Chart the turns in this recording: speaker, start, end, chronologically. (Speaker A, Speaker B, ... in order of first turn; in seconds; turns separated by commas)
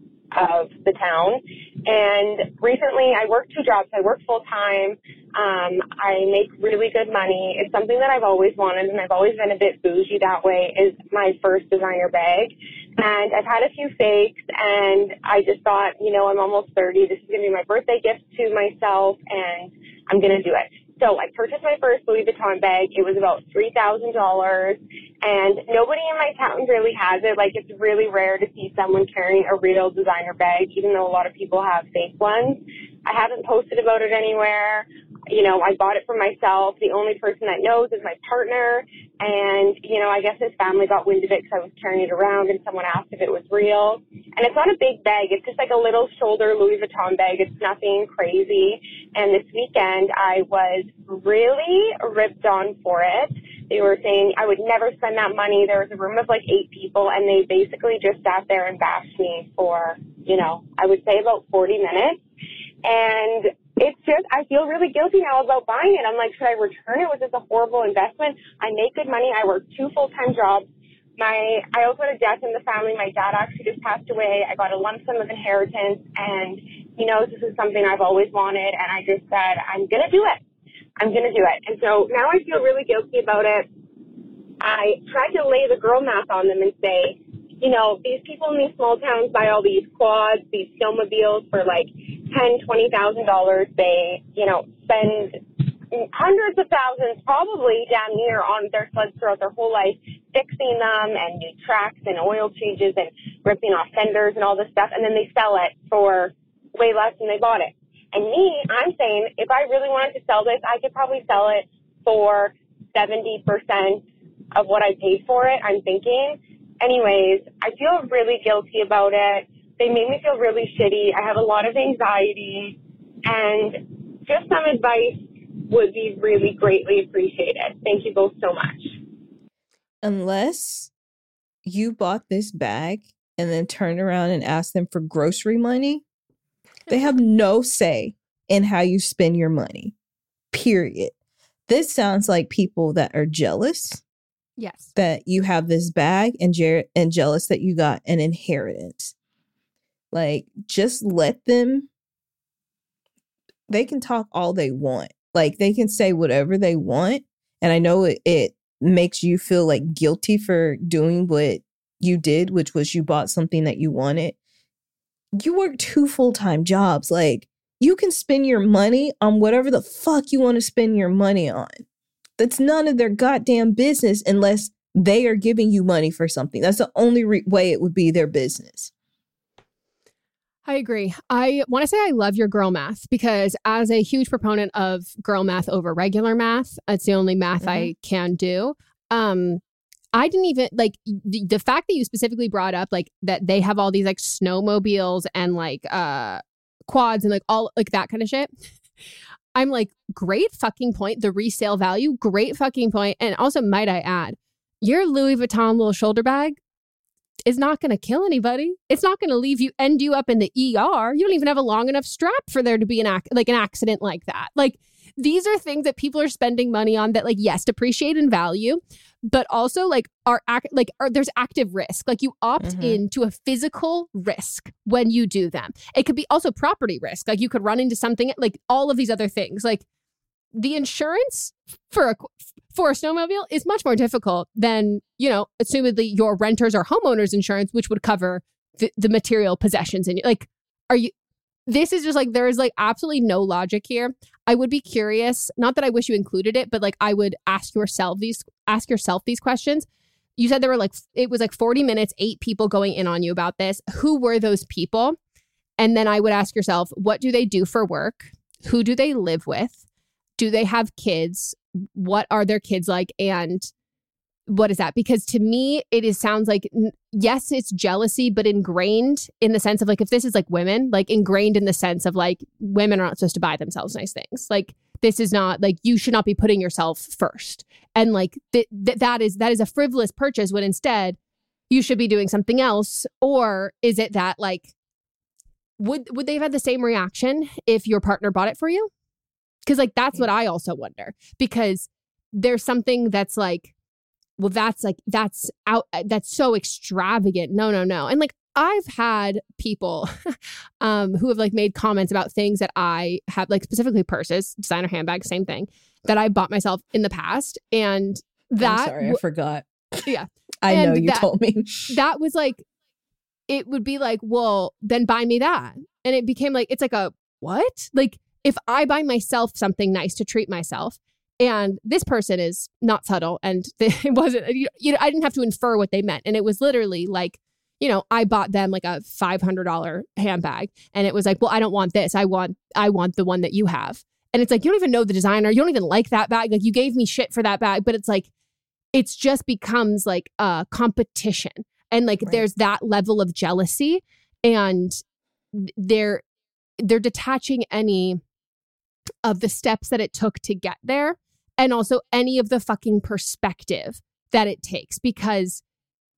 Speaker A: 0.3-62.2, Speaker A: 62.8-70.7, Speaker A: 71.2-80.4, Speaker A: 81.0-83.7, Speaker A: 84.6-95.4, Speaker A: 95.9-128.9, Speaker B: 130.0-130.9, Speaker B: 131.6-136.0, Speaker B: 136.9-139.9, Speaker B: 140.5-141.1, Speaker B: 141.7-144.0, Speaker C: 144.6-144.9, Speaker B: 144.9-149.1, Speaker B: 150.1-151.9, Speaker B: 153.7-164.3, Speaker B: 165.4-171.8, Speaker B: 172.4-178.9, Speaker C: 180.7-189.6, Speaker B: 187.6-187.9, Speaker C: 190.1-198.5, Speaker C: 199.5-206.6, Speaker C: 207.4-229.8, Speaker B: 222.6-223.0, Speaker C: 230.5-241.1, Speaker C: 241.7-255.2, Speaker C: 255.8-259.8, Speaker C: 260.4-263.7, Speaker C: 264.5-281.2, Speaker C: 281.7-284.7, Speaker C: 285.8-288.9, Speaker C: 289.6-293.7, Speaker C: 294.4-309.2, Speaker B: 308.6-310.0, Speaker C: 310.1-311.3, Speaker B: 310.6-311.9, Speaker C: 311.9-312.6, Speaker C: 313.5-338.3, Speaker C: 338.9-345.0, Speaker C: 345.5-346.2, Speaker C: 346.8-348.2, Speaker C: 349.2-355.6